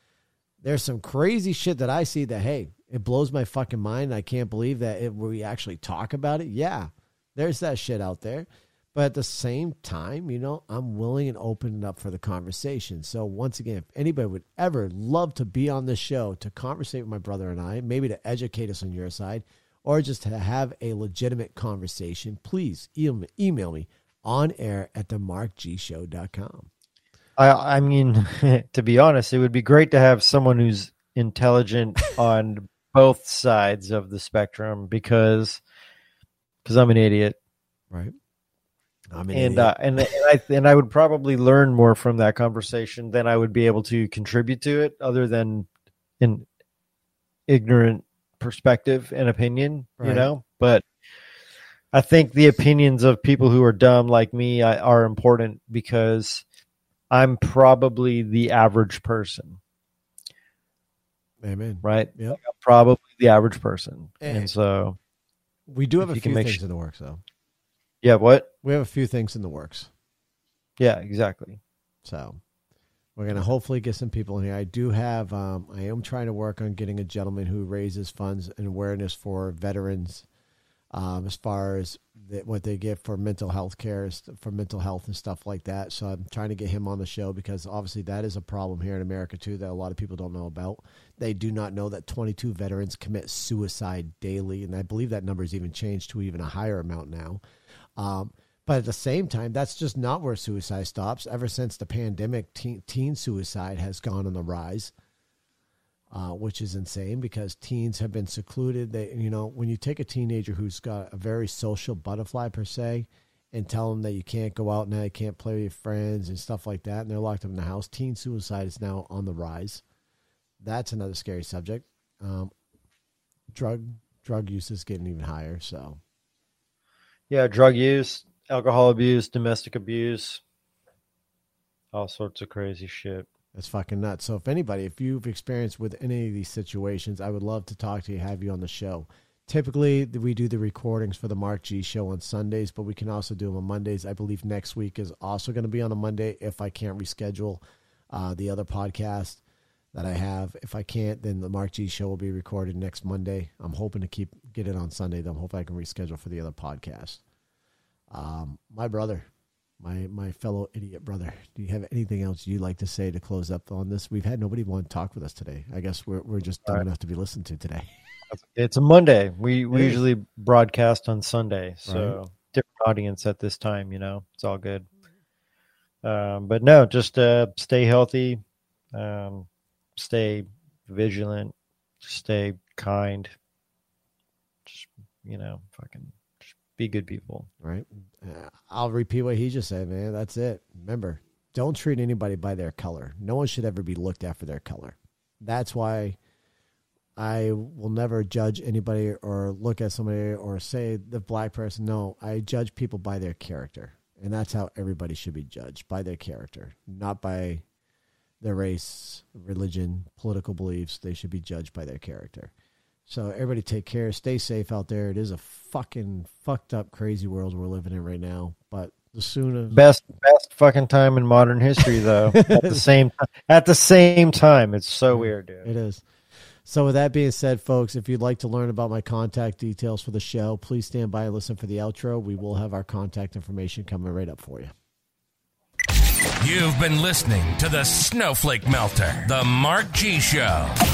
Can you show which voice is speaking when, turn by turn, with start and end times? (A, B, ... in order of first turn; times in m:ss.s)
0:00.6-0:26.7 A
0:27.4-0:35.6 B
0:36.6-0:37.4 B
0:39.1-0:39.8 A
0:39.3-0:45.7 B
0:46.2-0:46.5 B
0:47.5-0:50.8 B
0:50.0-0:50.3 A
0:51.9-0:56.4 B
0:57.1-0:59.6 B
1:01.4-1:02.4 A
1:01.8-1:05.0 B
1:04.2-1:04.5 A
1:05.7-1:07.2 A
1:06.0-1:06.6 B
1:08.0-1:08.5 B
1:08.6-1:09.9 A
1:10.8-1:11.6 B
1:12.0-1:12.4 A
1:13.2-1:20.3 A
1:20.9-1:37.4 A
1:38.0-1:44.9 A
1:46.1-1:59.8 A
2:00.6-2:02.5 A
2:03.5-2:06.0 A
2:07.3-2:10.4 B
2:11.9-2:13.3 B
2:13.6-2:29.4 A
2:29.9-2:37.2 A
2:38.1-2:39.3 A
2:39.8-2:47.9 A
2:48.3-2:54.9 B
2:49.7-2:50.0 A
2:51.9-2:52.2 A
2:56.0-2:58.4 B
2:58.9-3:03.4 B
3:04.7-3:07.5 B
3:07.6-3:16.2 A
3:17.2-3:27.6 A
3:28.4-3:32.5 A
3:33.1-3:39.8 A
3:39.7-3:45.7 B
3:41.9-3:42.8 A
3:45.1-3:46.0 A
3:46.6-3:54.7 A
3:56.4-4:00.8 C